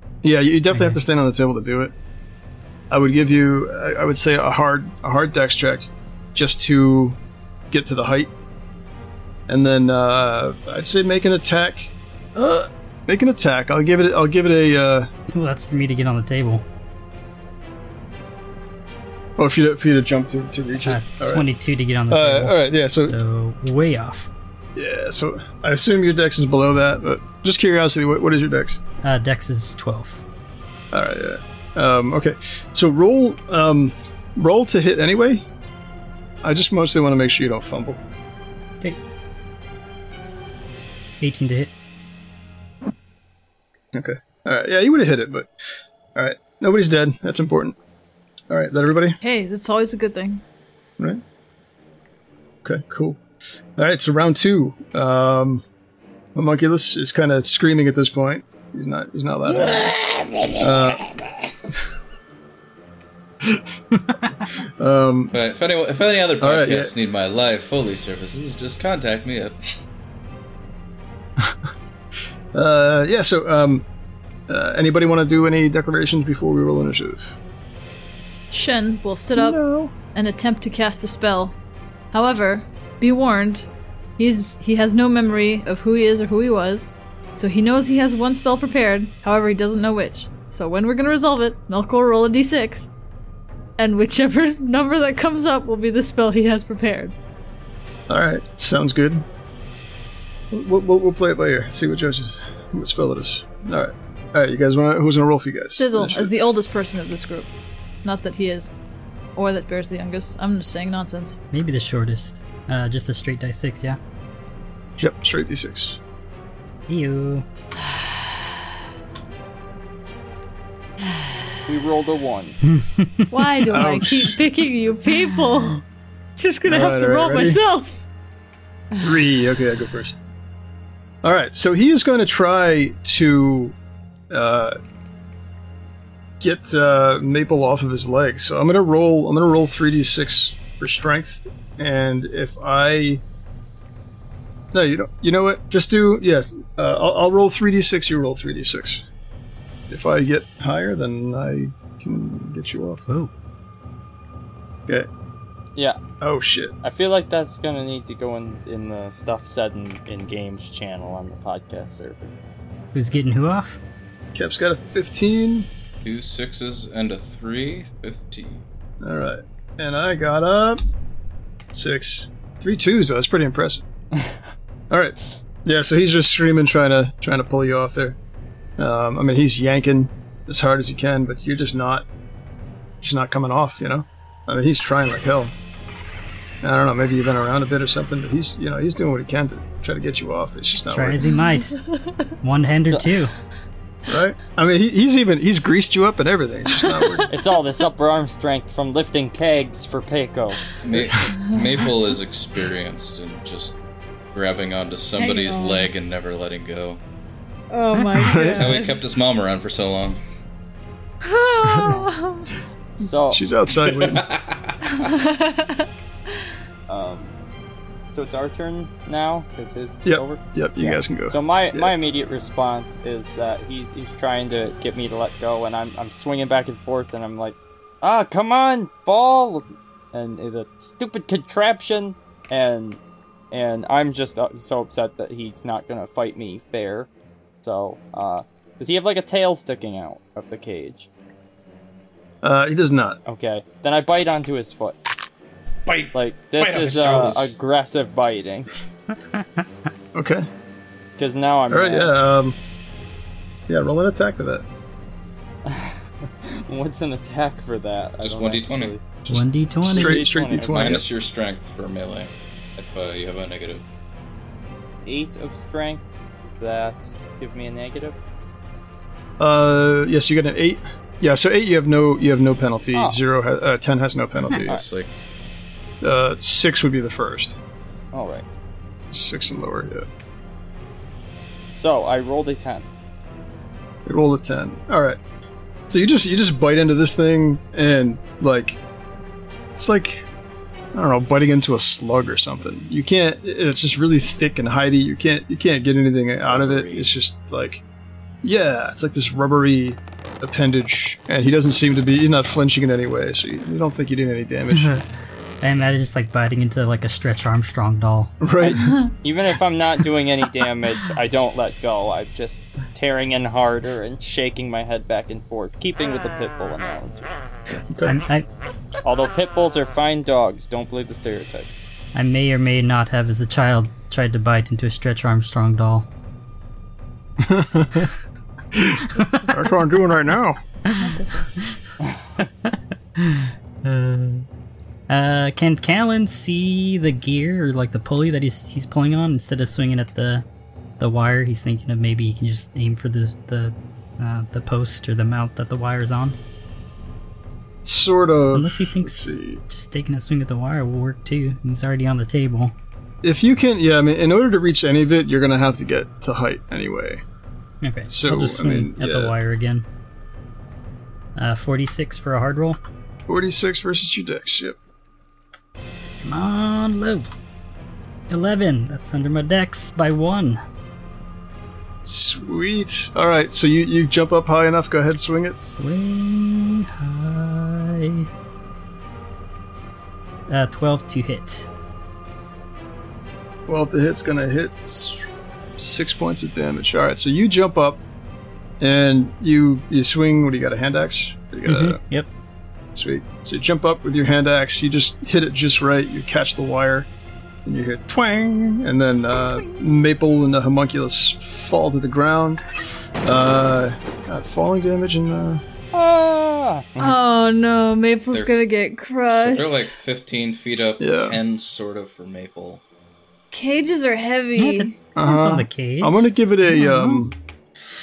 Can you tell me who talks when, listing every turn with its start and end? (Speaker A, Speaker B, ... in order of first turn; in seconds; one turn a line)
Speaker A: 0.2-1.9
Speaker B: 0.7-1.0
Speaker A: 2.9-7.2
Speaker A: 7.7-8.3
Speaker A: 9.5-15.1
Speaker B: 15.3-16.6
Speaker A: 19.4-21.5
Speaker B: 20.9-24.3
Speaker A: 22.1-23.2
Speaker A: 24.8-28.8
Speaker B: 29.0-30.2
Speaker A: 30.9-35.5
Speaker A: 36.4-38.0
Speaker B: 41.2-41.7
Speaker A: 43.9-45.5
Speaker A: 46.1-47.8
Speaker A: 48.5-49.2
Speaker C: 49.2-50.4
Speaker A: 52.6-53.2
Speaker A: 53.8-55.6
Speaker A: 56.4-60.0
Speaker D: 59.9-60.5
Speaker A: 60.5-61.1
Speaker A: 63.4-65.3
Speaker D: 65.3-69.6
Speaker A: 66.4-66.9
Speaker A: 72.5-73.9
Speaker A: 74.5-77.3
Speaker C: 78.5-79.6
Speaker A: 79.3-79.9
Speaker C: 80.1-81.6
Speaker C: 82.1-83.7
Speaker C: 84.2-92.9
Speaker C: 93.8-97.2
Speaker A: 98.1-99.2
Speaker A: 100.5-106.4
Speaker C: 105.8-107.5
Speaker C: 108.0-108.8
Speaker C: 109.4-111.4
Speaker B: 111.5-114.0
Speaker A: 115.0-116.0
Speaker B: 116.9-117.5
Speaker E: 121.7-122.6
Speaker B: 122.7-123.9
Speaker C: 123.3-125.8
Speaker A: 123.7-124.4
Speaker C: 126.4-128.0
Speaker A: 126.7-127.6
Speaker A: 129.0-130.2
Speaker A: 131.2-133.8
Speaker A: 134.3-134.8
Speaker A: 136.4-143.2
Speaker A: 144.7-149.0
Speaker A: 149.9-153.0
Speaker A: 156.2-156.7
Speaker E: 156.8-162.3
Speaker B: 162.9-163.8
Speaker A: 164.3-165.7
Speaker D: 166.0-168.7
Speaker A: 169.0-170.8
Speaker A: 171.7-173.8
Speaker A: 174.9-178.2
Speaker A: 178.8-182.1
Speaker A: 183.0-185.5
Speaker A: 186.6-191.3
Speaker B: 190.8-191.8
Speaker C: 191.3-192.1
Speaker B: 192.4-193.3
Speaker E: 192.9-193.1
Speaker A: 194.1-197.3
Speaker C: 196.9-197.3
Speaker E: 197.3-200.6
Speaker D: 200.8-203.8
Speaker D: 204.3-207.0
Speaker C: 205.2-205.9
Speaker C: 207.7-209.0
Speaker A: 208.2-208.8
Speaker D: 208.3-210.2
Speaker C: 211.2-212.5
Speaker A: 211.6-212.0
Speaker E: 213.0-213.5
Speaker A: 213.3-214.3
Speaker D: 213.8-214.9
Speaker C: 214.9-215.9
Speaker E: 216.9-217.3
Speaker E: 218.1-233.0
Speaker A: 220.1-221.9
Speaker E: 233.5-237.1
Speaker E: 237.6-241.1
Speaker A: 242.4-243.2
Speaker E: 243.3-245.0
Speaker D: 245.9-247.5
Speaker E: 246.1-248.8
Speaker B: 249.3-249.6
Speaker A: 250.1-250.5
Speaker E: 251.2-252.2
Speaker A: 251.7-252.6
Speaker A: 253.7-254.7
Speaker E: 255.7-259.0
Speaker D: 258.2-259.0
Speaker B: 259.3-260.2
Speaker A: 259.3-261.1
Speaker E: 259.9-261.0
Speaker D: 260.5-263.8
Speaker E: 265.1-268.1
Speaker A: 269.4-274.8
Speaker E: 272.9-273.2
Speaker D: 274.4-275.1
Speaker A: 276.0-277.6
Speaker E: 278.1-278.5
Speaker A: 279.1-280.1
Speaker E: 281.8-282.9
Speaker A: 284.1-285.2
Speaker A: 285.9-288.8
Speaker A: 289.8-290.3
Speaker A: 290.9-297.8
Speaker D: 296.5-297.1
Speaker A: 298.4-305.0
Speaker B: 304.7-305.0
Speaker B: 305.6-308.4
Speaker A: 308.4-309.0
Speaker E: 308.6-317.3
Speaker A: 317.9-318.2
Speaker B: 318.1-318.4
Speaker E: 319.0-321.7
Speaker B: 322.1-326.1
Speaker A: 327.4-328.1
Speaker A: 328.7-330.6
Speaker B: 329.2-329.5
Speaker B: 330.9-331.8
Speaker C: 331.0-331.3
Speaker B: 332.4-334.5
Speaker B: 335.1-340.4
Speaker B: 341.0-346.4
Speaker A: 347.8-349.6
Speaker B: 348.5-352.8
Speaker A: 353.2-357.2
Speaker B: 357.8-359.9
Speaker A: 358.1-359.4
Speaker B: 361.4-362.8
Speaker A: 363.3-364.8
Speaker B: 366.2-367.2
Speaker B: 368.3-370.6
Speaker A: 372.0-375.6
Speaker B: 375.6-378.3
Speaker B: 380.5-381.7
Speaker A: 383.7-385.3
Speaker A: 385.8-388.0
Speaker A: 388.8-392.0
Speaker B: 391.7-392.3
Speaker A: 392.9-397.1
Speaker A: 397.6-402.6
Speaker A: 403.2-405.6
Speaker E: 405.9-407.1
Speaker C: 407.0-409.9
Speaker D: 408.3-408.7
Speaker D: 409.3-412.8
Speaker A: 411.0-411.4
Speaker C: 413.5-415.0
Speaker B: 414.6-417.2
Speaker A: 415.2-417.4